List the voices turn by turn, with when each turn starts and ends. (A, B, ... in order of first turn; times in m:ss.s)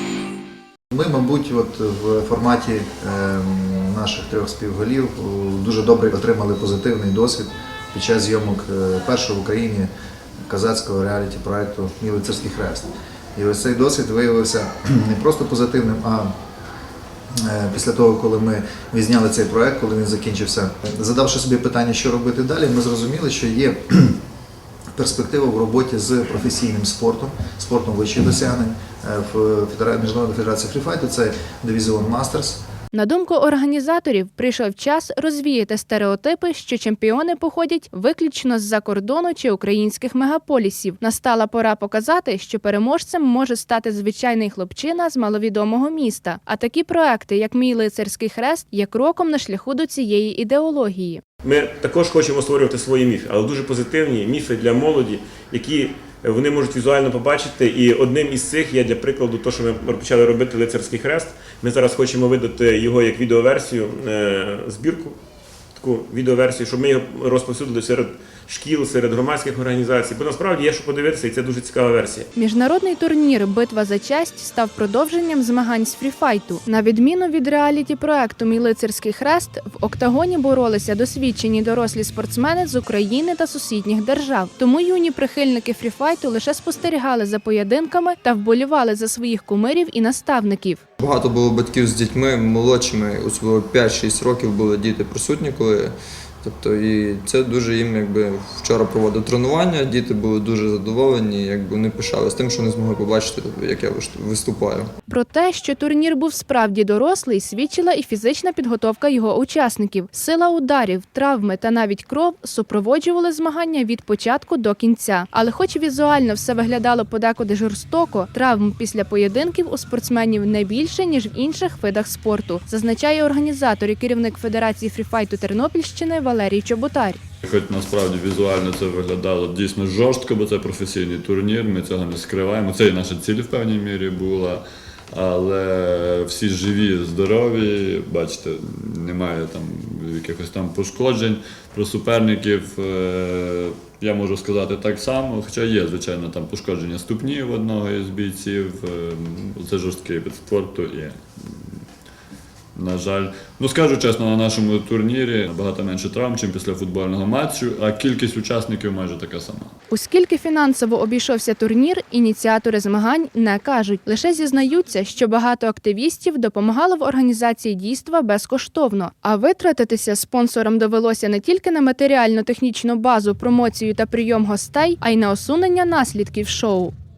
0:00.9-0:09.9 A
0:10.5-0:16.3 A
0:17.4-0:24.2 A
0:24.9-0:32.6 A
0:32.9-0:51.2 B
0:51.4-1:05.2 C
1:05.8-1:12.3 C
1:12.4-1:30.8 B
1:31.0-1:44.9 D
1:45.1-2:07.2 B
2:07.4-2:31.8 E
2:32.8-2:39.7 E
2:39.9-2:56.9 B